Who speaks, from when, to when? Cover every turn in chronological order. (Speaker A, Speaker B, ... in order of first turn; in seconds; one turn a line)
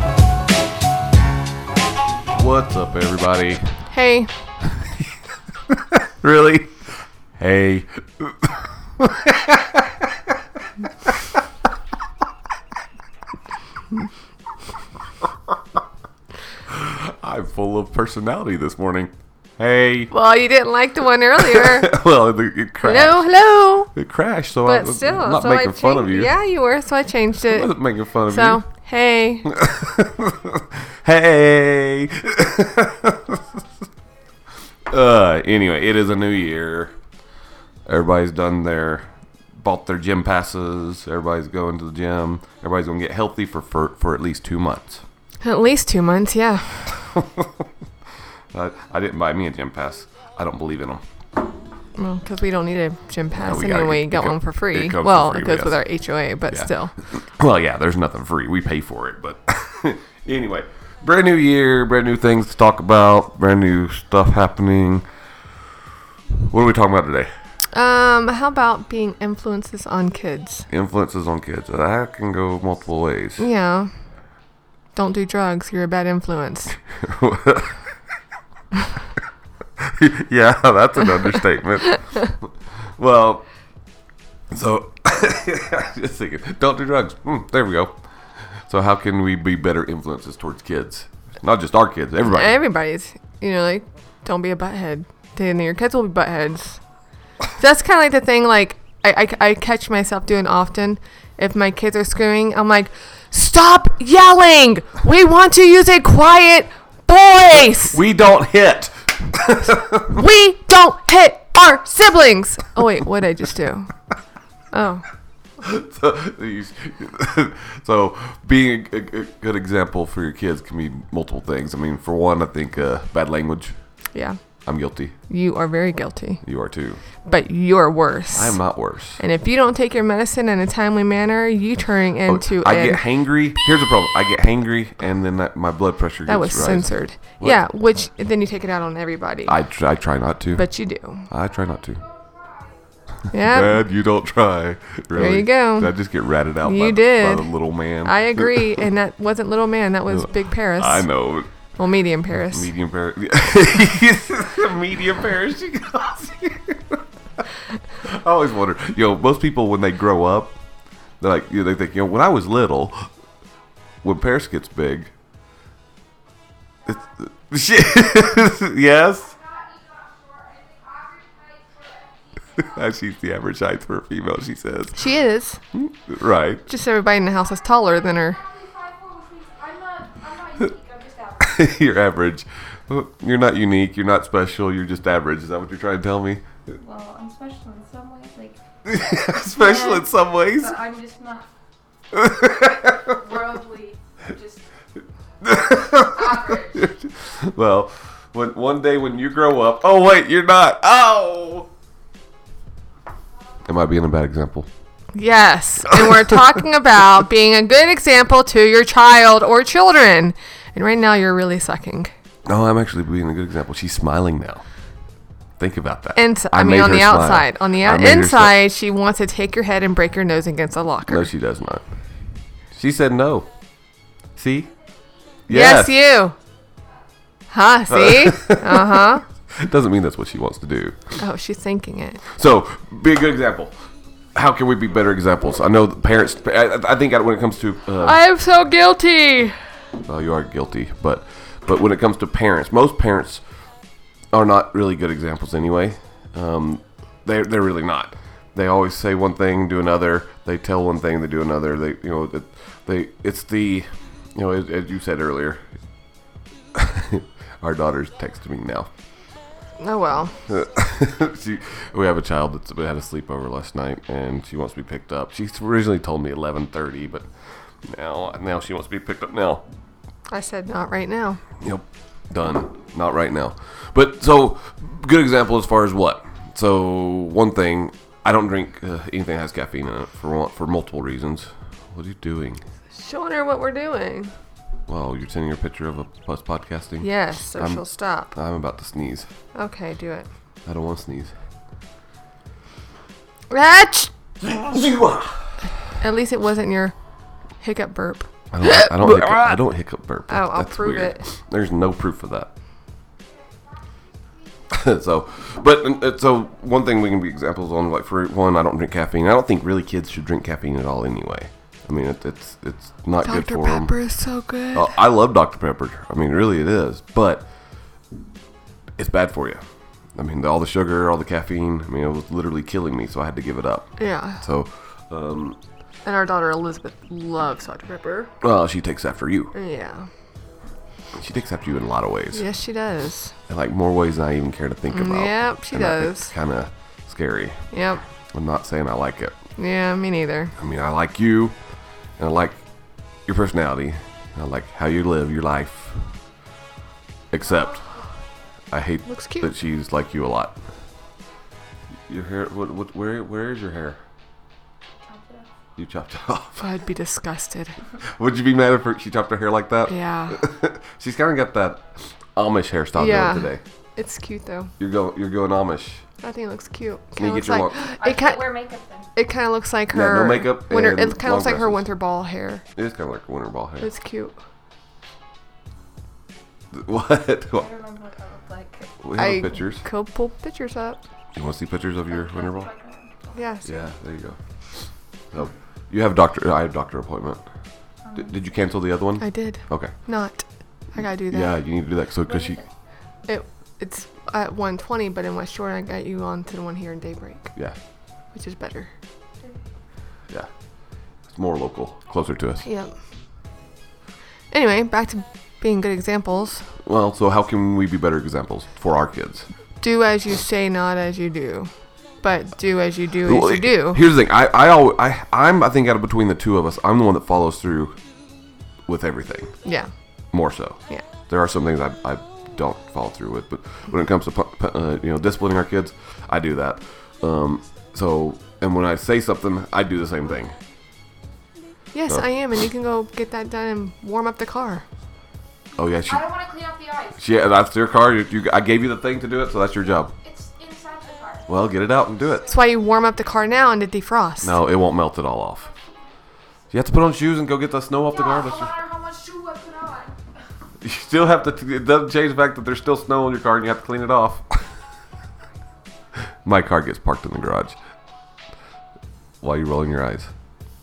Speaker A: 2.3-3.9
Speaker B: 3.9-4.3
Speaker A: 5.7-10.1
Speaker A: 10.8-11.1
Speaker A: 16.7-20.1
Speaker B: 20.1-21.9
Speaker A: 21.4-23.3
Speaker B: 22.8-23.9
Speaker A: 23.9-26.3
Speaker B: 24.6-27.8
Speaker A: 27.5-28.6
Speaker B: 28.3-29.5
Speaker A: 29.5-33.6
Speaker A: 34.9-36.9
Speaker A: 37.9-45.0
Speaker B: 45.4-46.9
Speaker A: 47.1-47.5
Speaker A: 48.5-51.0
Speaker B: 52.0-56.9
Speaker A: 53.3-55.9
Speaker A: 56.5-65.1
Speaker A: 66.3-67.3
Speaker B: 67.7-70.7
Speaker A: 70.7-73.5
Speaker B: 73.4-73.9
Speaker B: 74.9-76.8
Speaker A: 77.0-77.8
Speaker A: 79.8-83.4
Speaker A: 84.5-92.6
Speaker B: 92.2-96.8
Speaker B: 97.6-108.0
Speaker A: 107.5-110.0
Speaker B: 110.1-113.9
Speaker B: 114.7-115.0
Speaker A: 115.6-123.7
Speaker A: 124.7-125.1
Speaker B: 125.3-126.4
Speaker A: 126.4-127.0
Speaker B: 127.2-128.6
Speaker A: 128.3-129.2
Speaker B: 129.2-133.0
Speaker A: 132.2-137.6
Speaker B: 136.3-139.6
Speaker A: 139.5-140.7
Speaker B: 140.5-141.3
Speaker A: 141.3-142.0
Speaker B: 143.3-143.8
Speaker A: 143.4-148.8
Speaker B: 145.1-145.9
Speaker B: 146.6-151.1
Speaker A: 150.1-151.5
Speaker B: 151.8-152.7
Speaker A: 152.5-157.4
Speaker A: 158.0-160.6
Speaker A: 161.2-163.1
Speaker A: 164.0-165.1
Speaker A: 166.8-169.4
Speaker A: 172.5-175.0
Speaker B: 174.9-175.6
Speaker A: 175.7-176.6
Speaker B: 176.7-178.4
Speaker C: 178.8-181.3
Speaker A: 180.4-180.7
Speaker A: 181.3-186.4
Speaker C: 186.7-188.6
Speaker A: 188.8-190.8
Speaker C: 189.2-191.5
Speaker A: 192.1-193.2
Speaker C: 193.1-194.6
Speaker A: 195.4-201.7
Speaker C: 196.3-196.7
Speaker A: 203.7-204.7
Speaker B: 205.1-212.1
Speaker A: 205.9-206.2
Speaker A: 212.4-214.6
Speaker A: 215.6-218.6
Speaker B: 216.2-221.3
Speaker A: 221.1-221.8
Speaker A: 222.7-223.5
Speaker A: 224.3-224.7
Speaker A: 225.5-225.9
Speaker B: 225.5-226.3
Speaker B: 227.5-229.2
Speaker A: 227.9-231.1
Speaker B: 231.2-232.2
Speaker A: 232.3-233.8
Speaker A: 234.3-238.2
Speaker B: 238.0-239.6
Speaker A: 240.1-243.4
Speaker A: 244.3-255.7
Speaker A: 256.7-258.9
Speaker B: 259.8-260.4
Speaker A: 260.5-269.6
Speaker B: 270.3-271.4
Speaker A: 271.6-282.6
Speaker B: 282.9-284.3
Speaker A: 284.9-289.3
Speaker B: 287.0-288.3
Speaker B: 289.5-290.3
Speaker A: 290.6-291.3
Speaker B: 293.5-294.1
Speaker A: 294.4-295.5
Speaker B: 296.0-296.9
Speaker B: 297.6-299.6
Speaker A: 298.5-302.5
Speaker B: 300.3-301.2
Speaker A: 304.7-313.9
Speaker B: 313.2-314.9
Speaker A: 314.7-317.5
Speaker A: 319.0-319.6
Speaker A: 320.1-325.6
Speaker B: 324.0-324.4
Speaker B: 326.0-328.3
Speaker A: 328.4-329.5
Speaker B: 329.5-330.1
Speaker A: 331.1-332.4
Speaker B: 332.3-333.3
Speaker A: 333.5-337.6
Speaker B: 334.9-336.3
Speaker B: 337.7-338.0
Speaker A: 338.3-339.4
Speaker B: 339.6-340.5
Speaker A: 340.6-341.5
Speaker A: 342.2-342.6
Speaker A: 343.2-346.1
Speaker A: 347.3-348.0
Speaker A: 348.7-350.6
Speaker B: 349.1-349.5
Speaker A: 352.1-354.0
Speaker C: 355.0-355.5
Speaker A: 355.8-356.7
Speaker B: 356.6-357.7
Speaker A: 358.0-363.6
Speaker B: 359.9-360.4
Speaker B: 362.9-364.7
Speaker A: 364.8-366.0
Speaker B: 366.2-368.5
Speaker A: 367.2-368.0
Speaker C: 367.9-369.1
Speaker B: 369.1-372.6
Speaker A: 369.9-371.9
Speaker A: 372.8-373.9
Speaker B: 373.8-374.4
Speaker A: 376.7-377.7
Speaker C: 377.5-378.9
Speaker A: 379.0-379.8
Speaker B: 379.1-381.0
Speaker A: 381.3-382.7
Speaker C: 382.1-383.3
Speaker B: 383.3-383.8
Speaker A: 383.6-387.5
Speaker C: 388.0-388.3
Speaker A: 388.1-389.9
Speaker B: 389.2-391.5
Speaker A: 391.2-392.6
Speaker B: 393.2-397.5
Speaker B: 398.3-398.9
Speaker A: 401.3-402.6
Speaker B: 402.6-402.9
Speaker B: 404.5-406.7
Speaker A: 406.8-409.5
Speaker B: 409.8-411.7
Speaker B: 412.2-414.0
Speaker A: 413.2-418.0
Speaker A: 418.9-419.6
Speaker B: 419.6-419.9
Speaker A: 420.3-430.6
Speaker B: 431.9-434.9
Speaker A: 435.8-436.5
Speaker C: 436.4-437.1
Speaker A: 437.1-440.1
Speaker C: 440.2-441.4
Speaker A: 441.5-442.5
Speaker B: 442.5-444.6
Speaker A: 444.4-445.7
Speaker A: 446.7-448.8
Speaker C: 448.8-450.1
Speaker A: 450.8-454.6
Speaker A: 456.4-457.8
Speaker A: 459.4-460.3